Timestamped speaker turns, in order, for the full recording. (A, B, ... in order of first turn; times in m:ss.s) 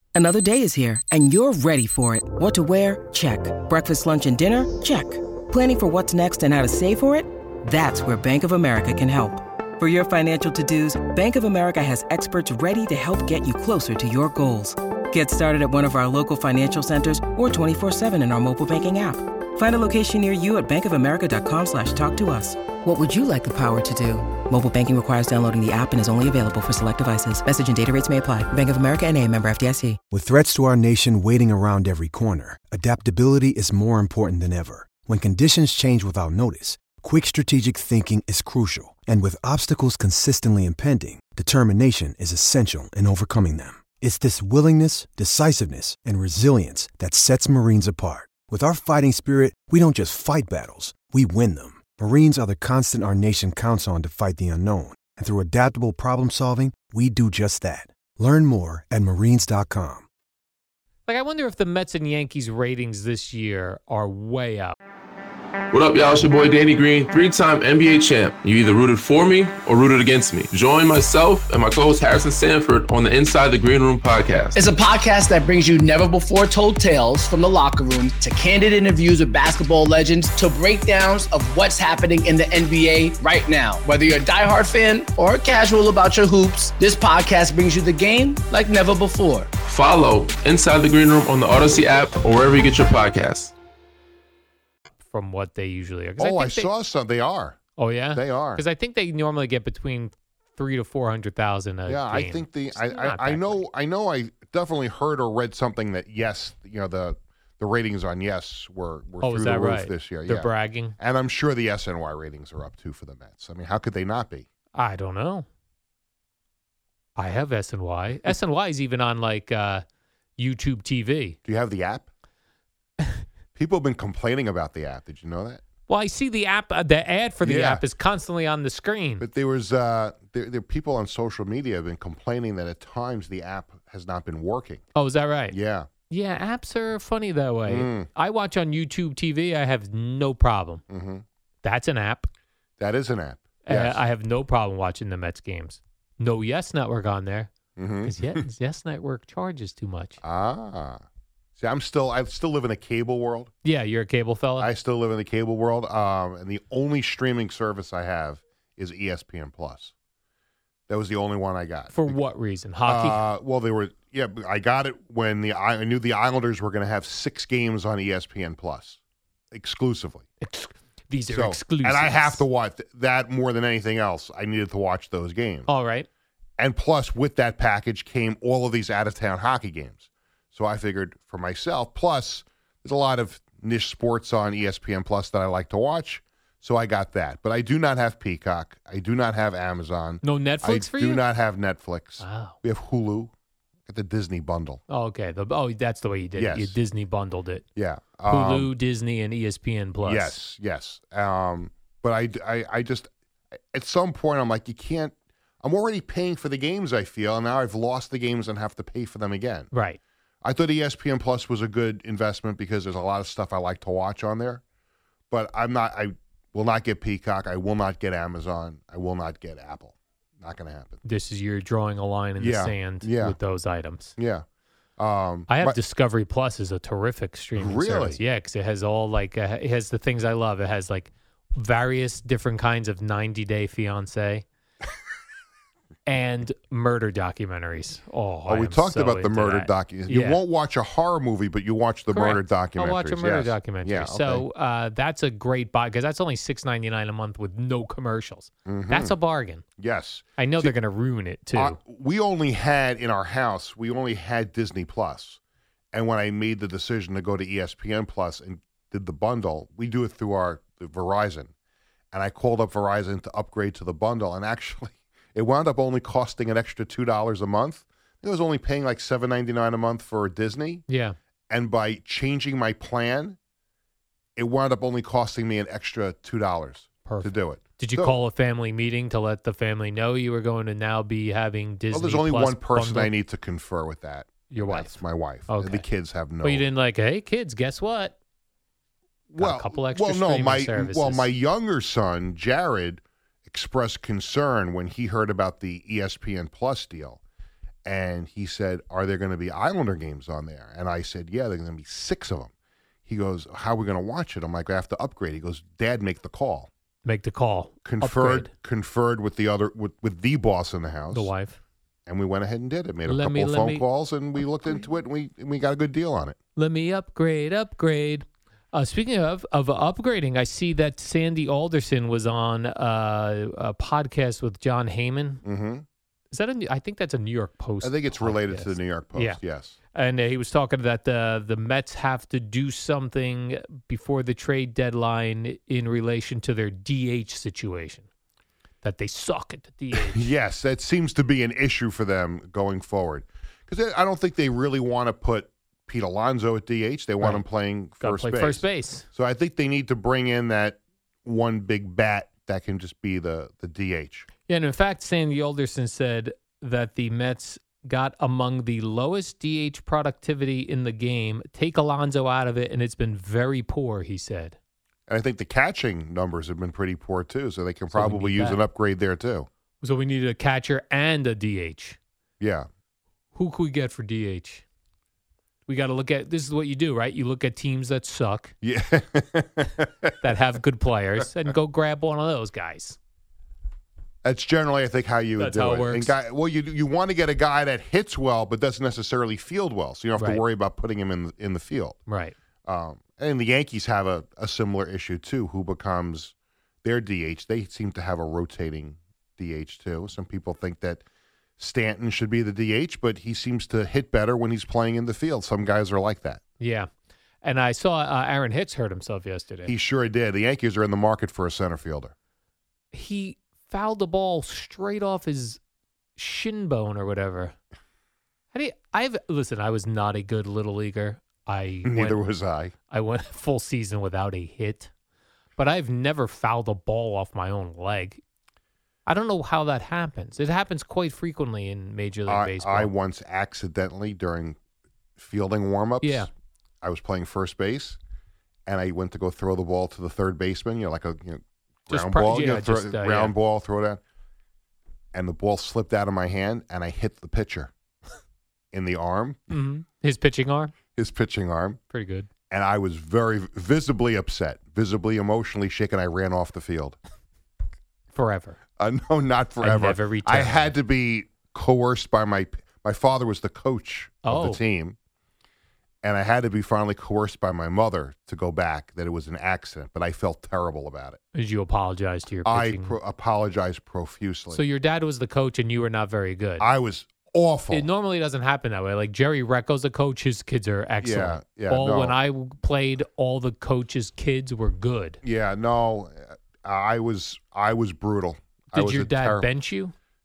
0:00.1-0:30.0 A
0:30.1-1:00.1 B
1:01.1-1:04.8 C
1:05.7-1:14.5 D
1:14.6-1:29.5 E
1:29.7-1:33.5 D
1:35.0-1:36.7 C
1:36.2-1:37.6 F
1:37.8-1:43.6 C
1:38.1-1:38.6 F
1:41.9-1:54.4 F
1:49.2-1:50.9 C
1:54.7-1:55.4 C
1:57.2-1:59.8 C
2:00.4-2:01.4 C
2:01.4-2:02.1 F
2:03.6-2:05.6 F
2:05.9-2:09.2 C
2:07.4-2:07.8 F
2:09.2-2:14.8 F
2:14.9-2:15.6 C
2:15.5-2:15.9 F
2:16.1-2:20.8 C
2:17.6-2:18.1 F
2:20.9-2:21.2 F
2:21.6-2:22.3 C
2:22.8-2:24.0 F
2:23.6-2:27.5 C
2:27.8-2:28.4 F
2:28.0-2:30.2 C
2:30.2-2:31.0 F
2:31.6-2:33.5 F
2:33.6-2:34.7 C
2:34.6-2:39.9 F
2:40.9-2:42.2 F
2:41.9-2:43.2 C
2:42.8-2:49.0 F
2:49.5-2:50.3 F
2:50.4-2:52.4 C
2:51.3-2:55.7 F
2:55.7-2:56.1 C
2:56.6-3:13.3 F
3:10.2-3:11.2 C
3:12.2-3:12.6 C
3:13.9-3:14.8 F
3:14.9-3:17.6 C
3:16.4-3:16.8 F
3:17.7-3:18.7 F
3:18.3-3:20.4 C
3:20.0-3:23.1 F
3:23.7-3:29.7 F
3:29.7-3:30.0 C
3:30.4-3:34.6 F
3:35.3-3:41.0 F
3:41.0-3:44.1 C
3:42.4-3:43.4 F
3:44.1-3:44.4 F
3:45.0-3:45.8 F
3:45.5-3:54.4 C
3:47.6-3:48.2 F
3:56.0-4:00.4 C
3:58.5-4:04.4 F
4:02.1-4:09.6 C
4:08.6-4:09.2 F
4:09.8-4:10.8 F
4:10.4-4:11.8 C
4:11.5-4:15.4 F
4:15.9-4:21.5 F
4:22.1-4:30.9 F
4:30.9-4:31.2 C
4:31.5-4:33.4 F
4:34.4-4:38.2 F
4:37.0-4:43.1 C
4:41.9-4:46.7 F
4:44.5-4:45.0 C
4:45.5-4:45.8 C
4:46.4-4:48.2 C
4:49.3-4:57.2 F
4:49.4-4:51.3 C
4:57.8-5:02.5 F
5:03.0-5:06.7 F
5:07.0-5:08.5 C
5:07.8-5:11.3 F
5:11.1-5:11.6 C
5:12.1-5:16.4 F
5:13.0-5:13.8 C
5:16.6-5:25.4 C
5:25.4-5:25.8 F
5:26.3-5:29.4 C
5:27.8-5:29.8 F
5:29.9-5:38.1 C
5:38.8-5:40.2 C
5:39.9-5:54.3 F
5:47.2-5:47.4 C
5:48.0-5:49.0 C
5:54.5-6:04.6 C
6:05.1-6:09.5 F
6:07.9-6:08.6 C
6:09.8-6:12.0 C
6:12.4-6:12.7 F
6:13.3-6:14.6 C
6:15.7-6:18.5 C
6:18.6-6:20.1 F
6:20.2-6:23.0 C
6:24.2-6:32.0 F
6:25.4-6:26.1 C
6:30.2-6:30.4 C
6:32.1-6:32.3 C
6:32.6-6:41.0 F
6:41.6-6:46.4 F
6:46.6-6:46.9 C
6:47.4-6:49.7 C
6:49.6-6:52.1 F
6:52.9-6:55.6 C
6:56.2-6:57.5 C
6:58.5-7:02.3 C
7:01.8-7:02.7 F
7:02.9-7:04.9 C
7:05.6-7:08.2 C
7:09.0-7:12.9 C
7:12.3-7:14.6 F
7:15.2-7:16.3 F
7:16.0-7:16.3 C
7:16.8-7:18.0 F
7:18.7-7:24.0 F
7:21.9-7:23.3 C
7:25.1-7:27.7 F
7:28.7-7:29.5 F
7:29.5-7:30.7 C
7:30.9-7:31.8 F
7:31.9-7:32.3 C
7:32.5-7:37.0 F
7:38.1-7:38.6 C
7:38.8-7:45.0 F
7:39.6-7:40.7 C
7:44.2-7:44.6 C
7:46.0-7:51.2 F
7:51.3-7:53.0 C
7:52.4-7:54.6 F
7:54.5-7:56.6 C
7:56.6-7:57.9 F
7:57.7-8:05.2 C
8:01.0-8:02.2 F
8:05.2-8:09.5 F
8:08.7-8:09.9 C